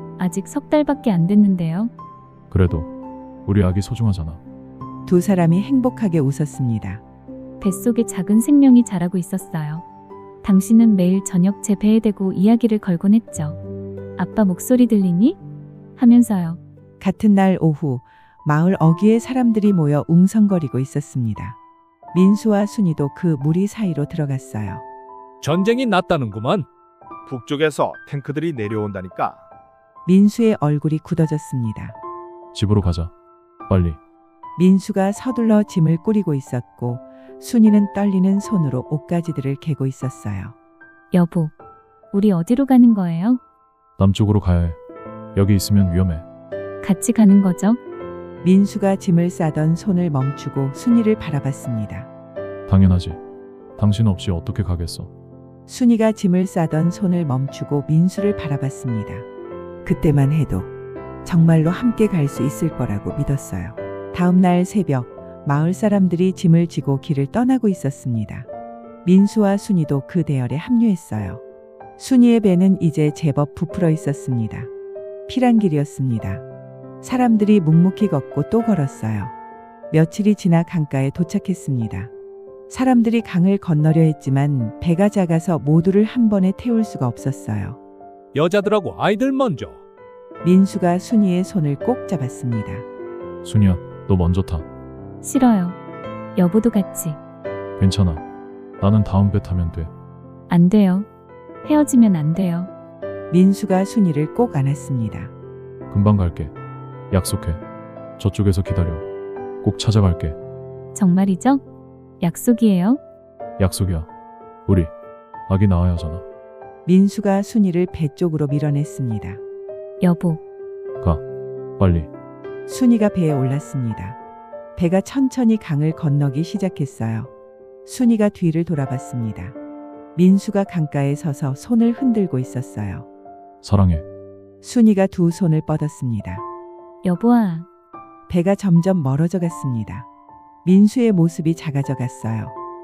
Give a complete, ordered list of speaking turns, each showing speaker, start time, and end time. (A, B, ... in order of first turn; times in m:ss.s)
0:00.2-0:01.9 A
0:02.5-0:02.9 B
0:03.4-0:04.4 B
0:05.0-0:07.0 C
0:07.6-0:09.8 A
0:10.4-0:13.6 A
0:14.2-0:15.4 A
0:16.0-0:16.6 A
0:17.0-0:21.6 C
0:22.1-0:24.8 C
0:25.4-0:26.5 D
0:27.3-0:29.4 E
0:30.0-0:32.0 C
0:32.5-0:33.1 B
0:33.7-0:34.0 B
0:34.6-0:40.5 C
0:41.1-0:41.5 A
0:42.1-0:43.4 A
0:44.0-0:44.8 B
0:45.3-0:46.2 B
0:46.8-0:47.8 A
0:48.4-0:52.1 C
0:52.7-0:53.2 B
0:53.8-0:55.1 B
0:55.7-0:59.2 C
0:59.8-1:00.7 C
1:01.2-1:08.5 C
1:09.0-1:11.4 C
1:12.0-1:14.7 C
1:15.3-1:16.4 C
1:17.0-1:19.3 C
1:19.9-1:22.1 C
1:22.7-1:27.8 C
1:28.3-1:29.8 D
1:30.4-1:32.8 C
1:33.4-1:34.6 B
1:35.2-1:35.8 A
1:36.4-1:37.2 A
1:37.8-1:38.2 B
1:38.8-1:39.9 B
1:40.5-1:41.1 A
1:41.6-1:42.7 A
1:43.3-1:45.3 C
1:45.9-1:46.5 B
1:47.1-1:47.6 B
1:48.2-1:49.1 B
1:49.6-1:50.4 B
1:50.9-1:51.6 A
1:52.2-1:53.0 A
1:53.6-1:54.1 B
1:54.7-1:54.9 B
1:55.5-1:56.2 B
1:56.8-1:59.4 C
2:00.0-2:00.4 A
2:01.8-2:02.1 B
2:02.7-2:04.2 C
2:04.8-2:07.3 C
2:07.8-2:09.6 C
2:10.2-2:13.1 C
2:13.6-2:14.0 B
2:14.6-2:16.4 C
2:17.0-2:17.7 A
2:18.3-2:20.1 C
2:20.6-2:22.6 C